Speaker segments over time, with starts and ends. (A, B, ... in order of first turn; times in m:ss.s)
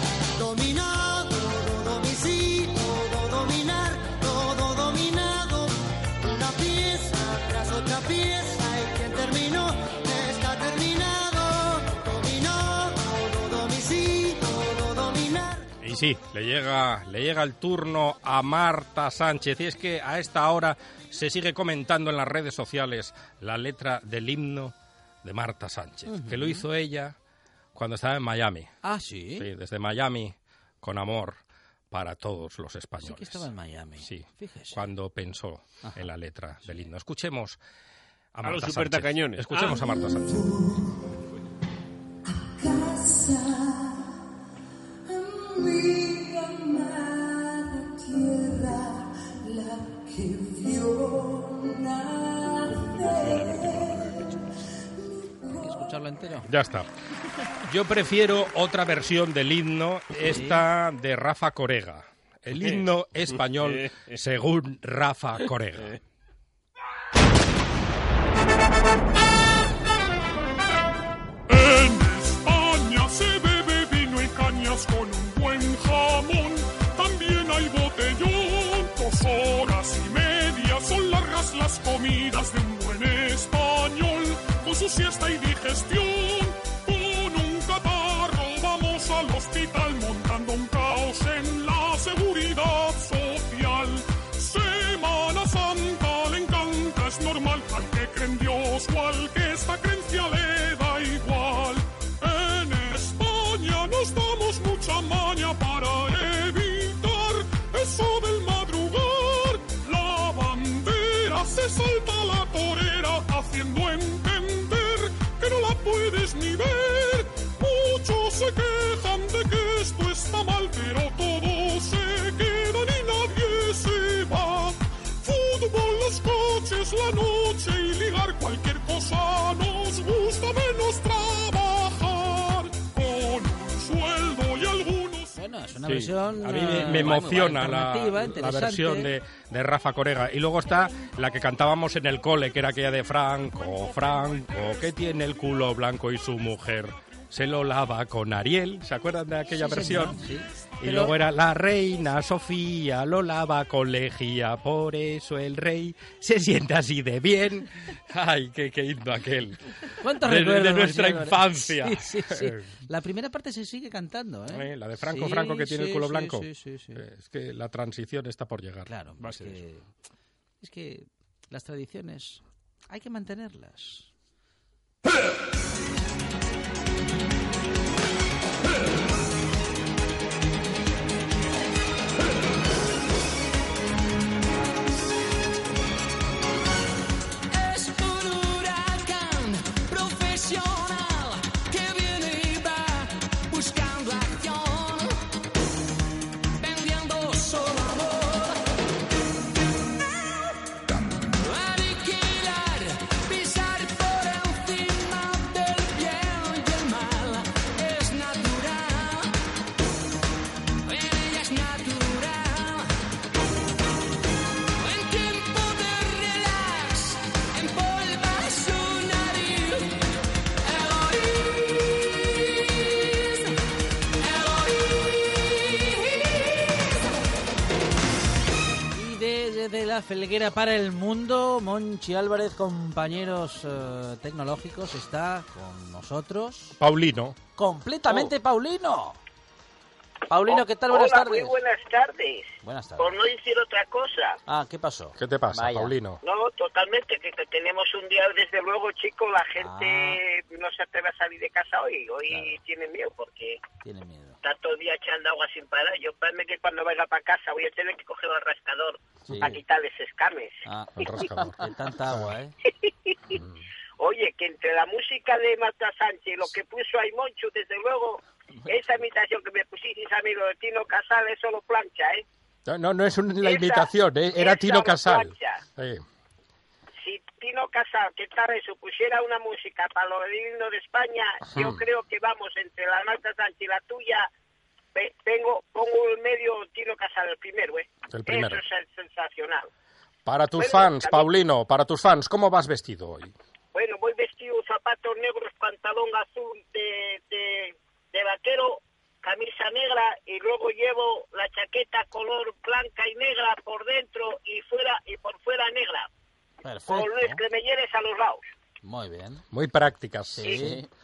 0:00.4-0:15.7 A
0:15.8-0:27.2 B
0:26.1-0:26.6 C
0:27.7-0:28.7 B
0:28.8-0:29.5 C
0:29.4-0:33.5 B
0:33.0-0:34.8 C
0:34.0-0:37.6 B
0:38.3-0:40.6 B
0:38.4-0:39.8 D
0:52.6-0:54.5 D
0:55.5-0:56.5 C
0:56.4-0:56.9 B
0:57.6-1:06.0 B
1:00.2-1:00.6 C
1:02.5-1:04.2 D
1:11.5-2:15.4 E
2:15.3-2:19.1 C
2:15.8-2:30.2 B
2:23.6-2:25.6 E
2:29.6-2:31.2 C
2:30.8-2:42.7 B
2:40.0-2:47.0 C
2:44.5-2:49.6 B
2:48.8-2:49.8 C
2:50.6-2:54.1 C
3:07.5-3:15.1 F
3:16.6-3:18.6 F
3:21.3-3:29.3 F
3:30.8-3:32.9 F
3:34.8-3:40.0 F
3:40.6-3:41.8 F
3:43.0-3:43.4 F
3:44.2-3:44.8 F
3:45.8-3:46.2 F
3:48.9-3:56.8 C
3:56.8-3:57.4 B
3:57.6-3:59.2 C
4:00.3-4:01.6 C
4:00.4-4:04.4 G
4:02.6-4:03.2 C
4:04.5-4:05.9 C
4:05.2-4:06.2 B
4:06.2-4:13.6 G
4:09.6-4:10.2 C
4:13.8-4:14.4 C
4:14.4-4:21.3 G
4:19.3-4:19.6 C
4:20.6-4:22.5 C
4:21.0-4:21.5 B
4:22.7-4:23.4 G
4:24.0-4:32.2 G
4:32.7-4:36.0 B
4:33.4-4:35.6 G
4:37.0-4:44.3 G
4:41.4-4:41.8 B
4:44.9-4:49.7 G
4:48.1-4:48.6 B
4:50.2-4:53.3 B
4:50.6-4:51.3 G
4:53.7-5:06.1 G
5:06.6-5:07.4 C
5:06.9-5:08.4 G
5:08.8-5:09.4 C
5:09.5-5:10.5 B
5:10.3-5:10.8 C
5:10.4-5:10.8 G